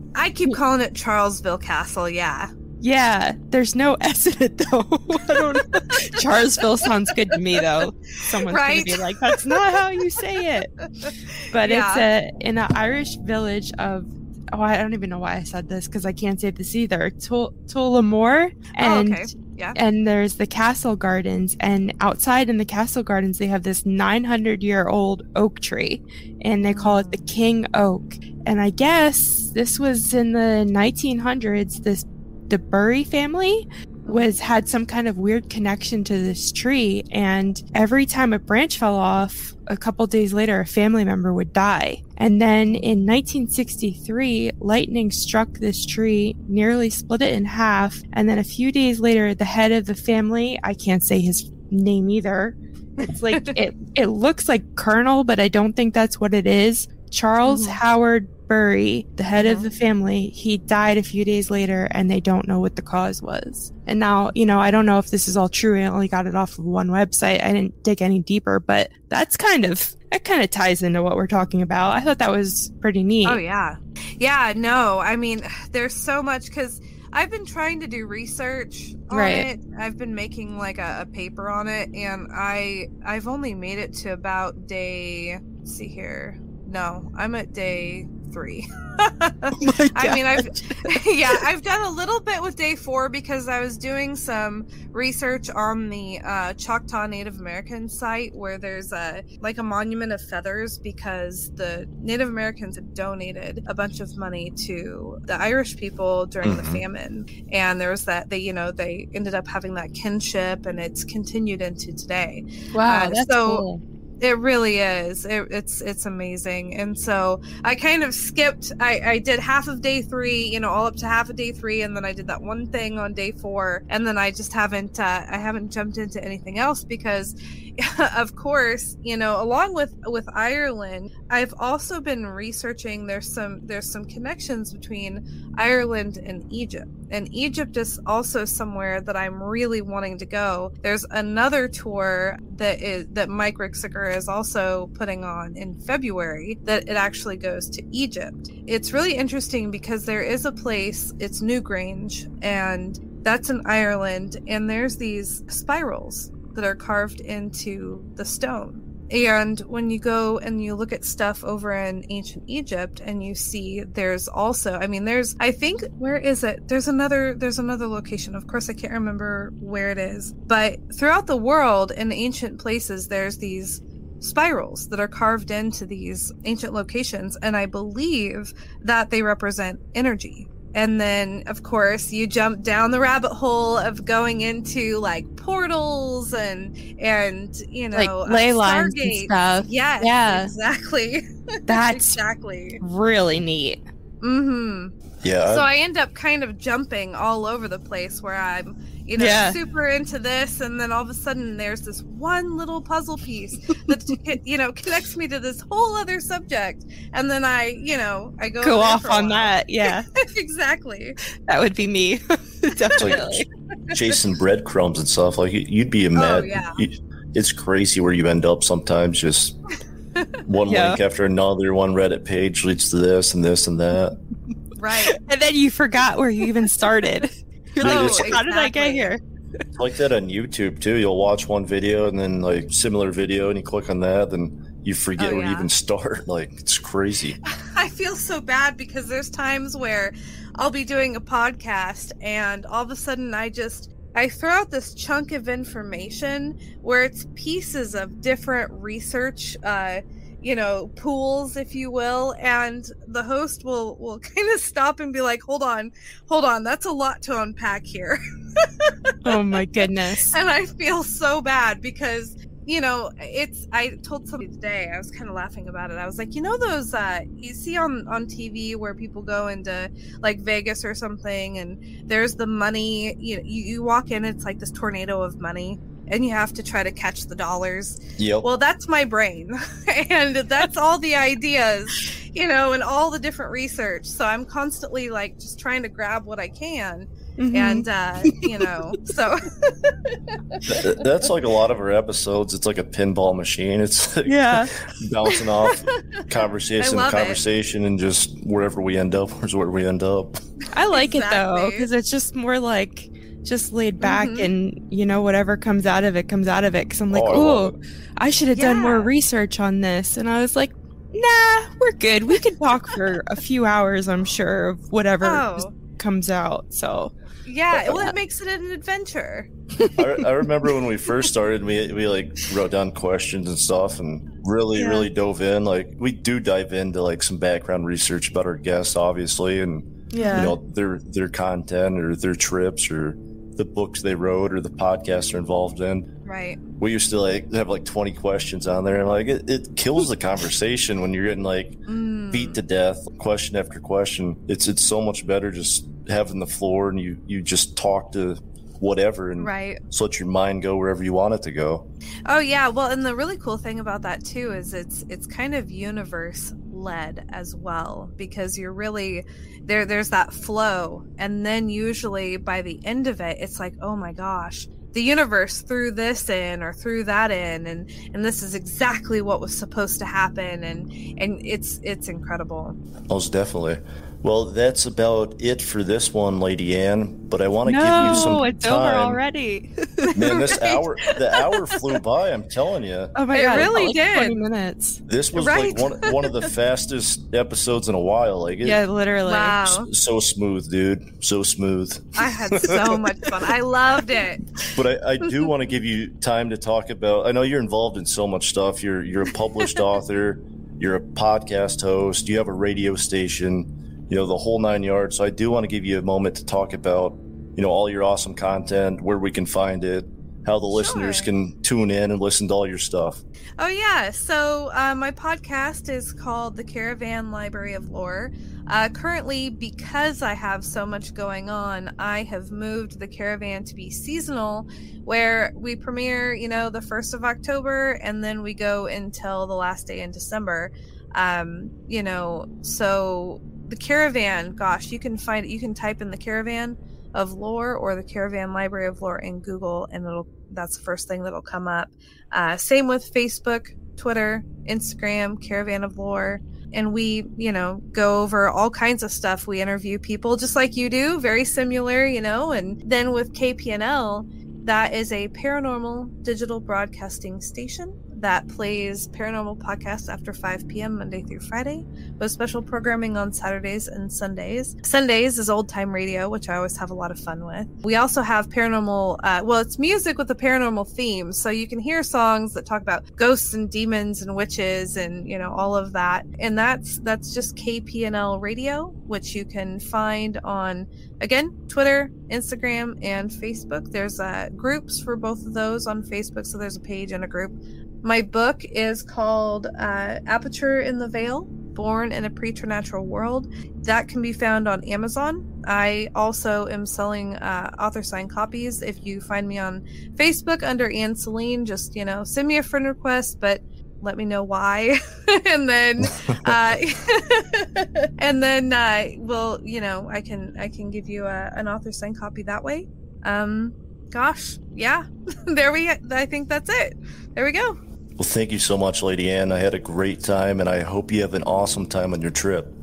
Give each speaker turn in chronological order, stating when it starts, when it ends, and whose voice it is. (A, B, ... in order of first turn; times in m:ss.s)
0:00.2-0:02.5 A
0:02.8-0:10.8 B
0:08.5-0:09.7 A
0:11.0-0:12.0 A
0:11.5-1:13.4 B
0:18.8-0:19.8 A
0:26.7-0:27.2 A
0:34.0-0:34.3 A
0:53.0-0:53.6 A
0:57.4-0:57.8 A
0:59.4-0:59.7 A
1:13.2-1:53.6 A
1:19.1-1:19.5 B
1:29.6-1:30.8 B
1:46.4-1:46.8 C
1:52.7-1:53.8 B
1:54.2-3:12.8 A
3:08.0-3:10.5 B
3:11.7-3:12.2 B
3:12.8-3:13.8 B
3:14.2-3:14.9 A
3:15.2-3:15.7 C
3:15.5-3:29.5 A
3:19.2-3:19.6 B
3:28.6-3:30.1 B
3:30.2-3:31.2 A
3:31.5-3:33.5 B
3:33.0-3:39.6 C
3:36.2-3:36.8 A
3:40.5-3:44.2 C
3:40.7-3:41.0 B
3:44.8-3:45.2 A
3:45.0-3:49.2 B
3:47.8-3:49.1 A
3:47.8-3:48.4 C
3:49.8-3:57.4 C
3:55.2-3:55.7 A
3:57.5-4:19.6 A
4:19.2-4:20.4 B
4:20.3-4:50.9 A
4:38.2-4:38.5 C
4:47.4-4:48.6 B
4:50.6-5:00.4 C
4:54.3-4:54.7 B
4:55.3-4:56.2 A
4:56.8-4:57.4 A
5:00.7-5:17.1 B
5:00.9-5:01.9 A
5:04.0-5:04.5 A
5:07.1-5:07.8 C
5:08.6-5:09.1 A
5:15.2-5:15.7 A
5:17.5-5:19.5 A
5:17.8-5:18.1 B
5:19.8-5:20.2 B
5:20.0-5:36.1 C
5:24.8-5:25.0 A
5:30.1-5:30.6 B
5:30.2-5:30.5 A
5:36.2-5:36.6 A
5:36.8-5:41.8 C
5:41.9-5:42.6 A
5:42.3-5:51.9 C
5:49.4-5:49.8 A
5:52.3-6:12.8 A
6:13.1-6:19.2 C
6:17.6-6:20.1 B
6:18.0-6:18.4 A
6:20.1-6:21.9 A
6:20.2-6:23.7 C
6:23.2-6:25.0 B
6:23.3-6:24.4 A
6:25.1-6:28.8 C
6:25.3-6:26.5 A
6:28.6-6:29.8 B
6:29.3-6:29.9 A
6:29.7-6:33.0 C
6:32.2-6:34.4 A
6:34.7-6:53.2 C
6:50.7-6:51.3 A
6:53.6-8:37.8 A
8:26.0-8:26.6 C
8:38.2-8:42.8 C